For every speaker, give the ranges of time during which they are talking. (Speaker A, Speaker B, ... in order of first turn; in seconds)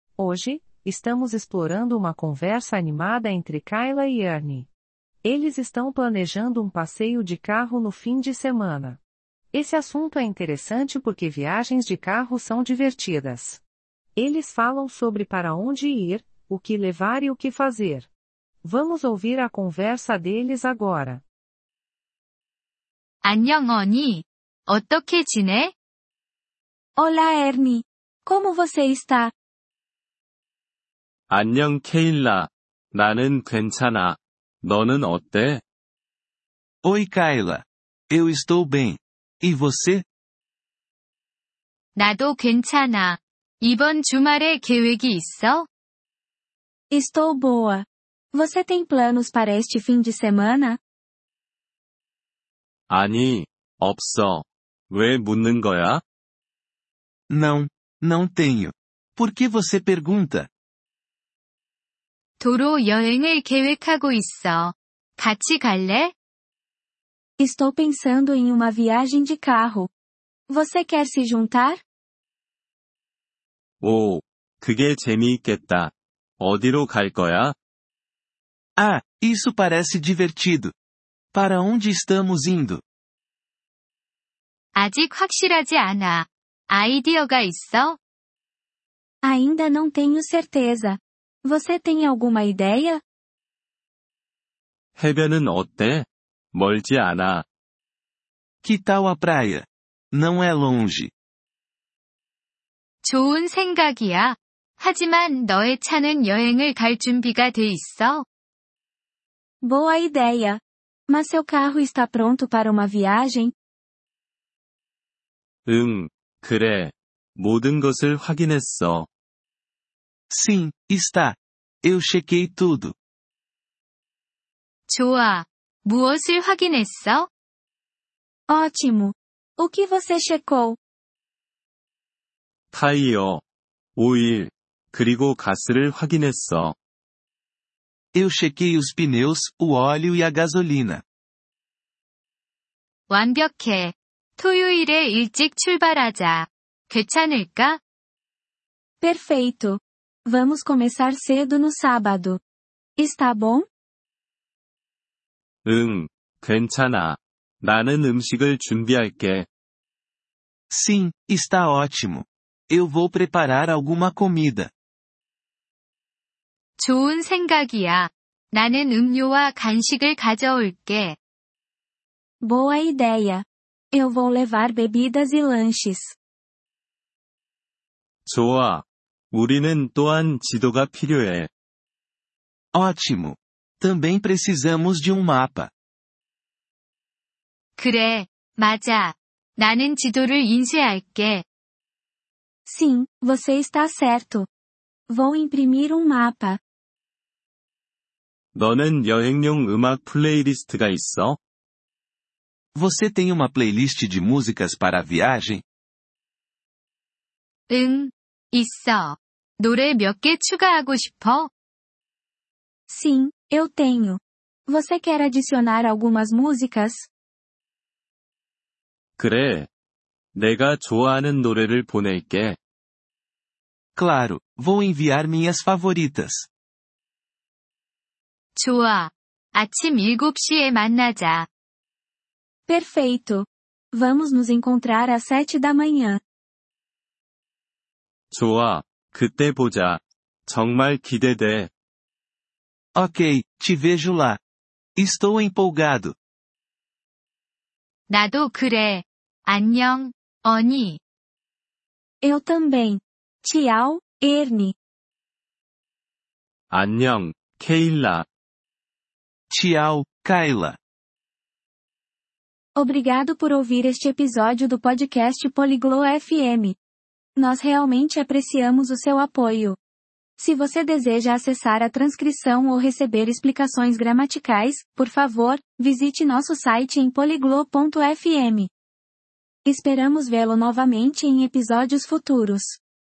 Speaker A: 0.2-4.7, 5.2-9.0, 9.5-13.6, 14.2-18.1, 18.6-21.2
Speaker B: 23.2-25.7, 42.0-45.7, 62.4-66.1, 84.7-88.0, 103.0-108.2, 124.9-127.3, 143.1-147.8, 166.8-171.2, 187.8-191.4, 207.7-211.5, 228.6-231.5, 248.1-251.0
Speaker C: 27.0-29.3, 46.9-50.8, 67.4-69.9, 70.5-71.8, 89.2-93.0, 109.6-113.5, 128.5-130.8, 149.0-152.4, 153.0-153.7, 172.4-176.1, 192.7-194.5, 195.1-196.6, 212.9-217.1, 232.7-236.2, 252.2-254.7, 262.8-266.8, 267.4-269.8, 270.4-278.7, 279.6-282.8
Speaker D: 31.3-35.6, 52.9-56.0, 73.8-77.5, 95.0-97.5, 115.7-119.1, 132.7-133.4, 133.9-136.8, 155.6-159.5, 178.2-181.5, 198.5-201.4, 219.2-219.7, 220.3-222.6, 238.3-241.7, 256.7-258.2
Speaker E: 36.8-40.0, 57.3-60.5, 78.8-80.7, 81.3-82.8, 98.6-101.1, 120.3-122.9, 138.1-141.0, 160.7-164.7, 182.7-185.7, 202.7-205.6, 223.9-226.5, 242.9-244.4, 244.9-246.2, 259.5-260.8